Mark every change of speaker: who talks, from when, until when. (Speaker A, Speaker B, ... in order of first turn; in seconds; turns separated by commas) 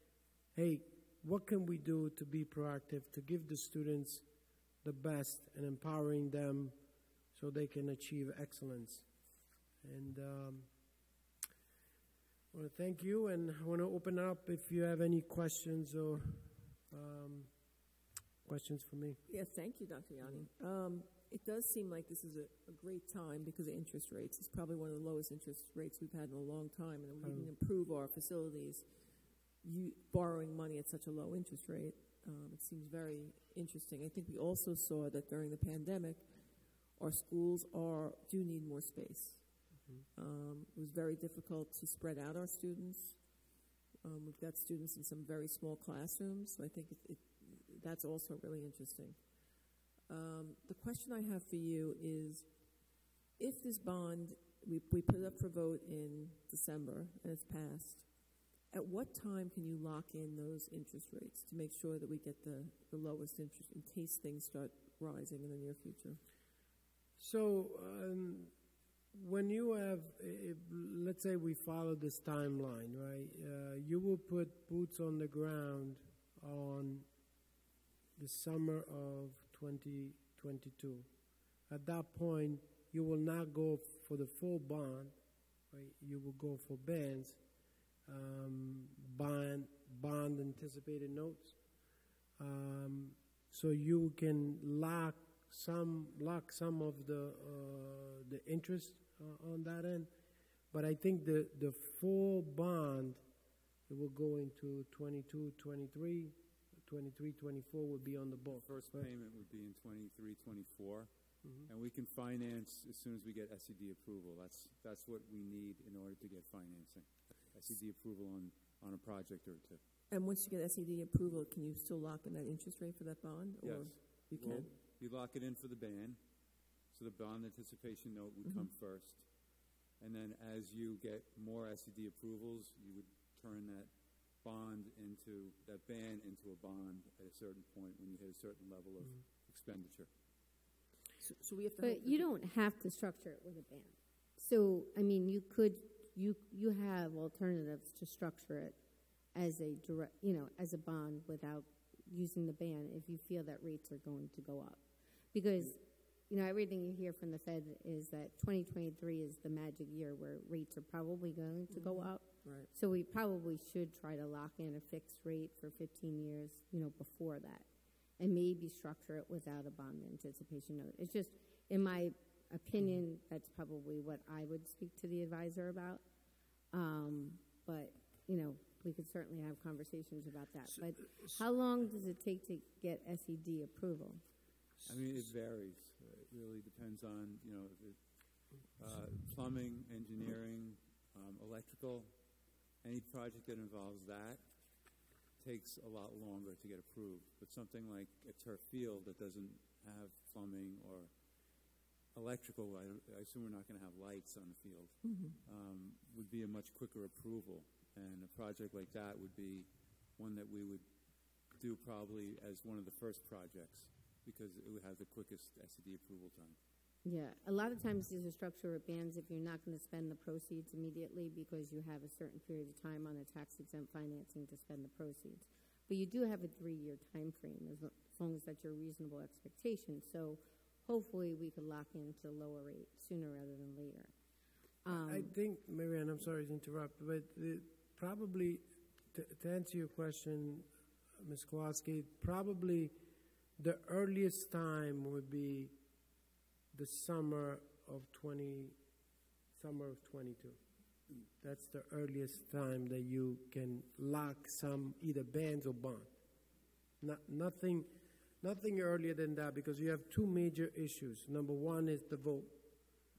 Speaker A: 0.6-4.2, Speaker A: 4.8-6.8, Speaker A: 7.3-9.1, Speaker A: 9.8-10.7, Speaker A: 12.5-17.5, Speaker A: 18.4-19.2, Speaker B: 19.3-66.2, Speaker A: 27.2-27.5, Speaker A: 67.2-68.5, Speaker A: 69.1-77.1, Speaker A: 78.2-81.1, Speaker A: 81.7-85.2, Speaker A: 85.7-87.4, Speaker A: 88.1-91.6, Speaker A: 92.4-100.1, Speaker A: 100.7-103.2, Speaker A: 103.9-109.1, Speaker C: 108.5-119.8, Speaker A: 111.4-111.7, Speaker B: 120.1-124.7, Speaker C: 123.6-126.2, Speaker C: 126.8-140.1, Speaker B: 128.4-128.7, Speaker B: 141.2-142.3, Speaker D: 141.8-148.8, Speaker D: 149.3-167.7, Speaker B: 161.7-162.7, Speaker D: 168.2-176.0, Speaker D: 176.7-184.2, Speaker C: 184.8-201.2, Speaker C: 202.1-216.6, Speaker B: 205.0-205.4, Speaker D: 217.0-234.1, Speaker D: 234.8-235.3, Speaker A: 234.9-240.7, Speaker A: 241.2-242.9, Speaker A: 243.6-245.7, Speaker A: 246.7-248.8, Speaker A: 249.6-250.6, Speaker A: 251.4-256.1, Speaker A: 257.0-257.9, Speaker A: 258.4-262.5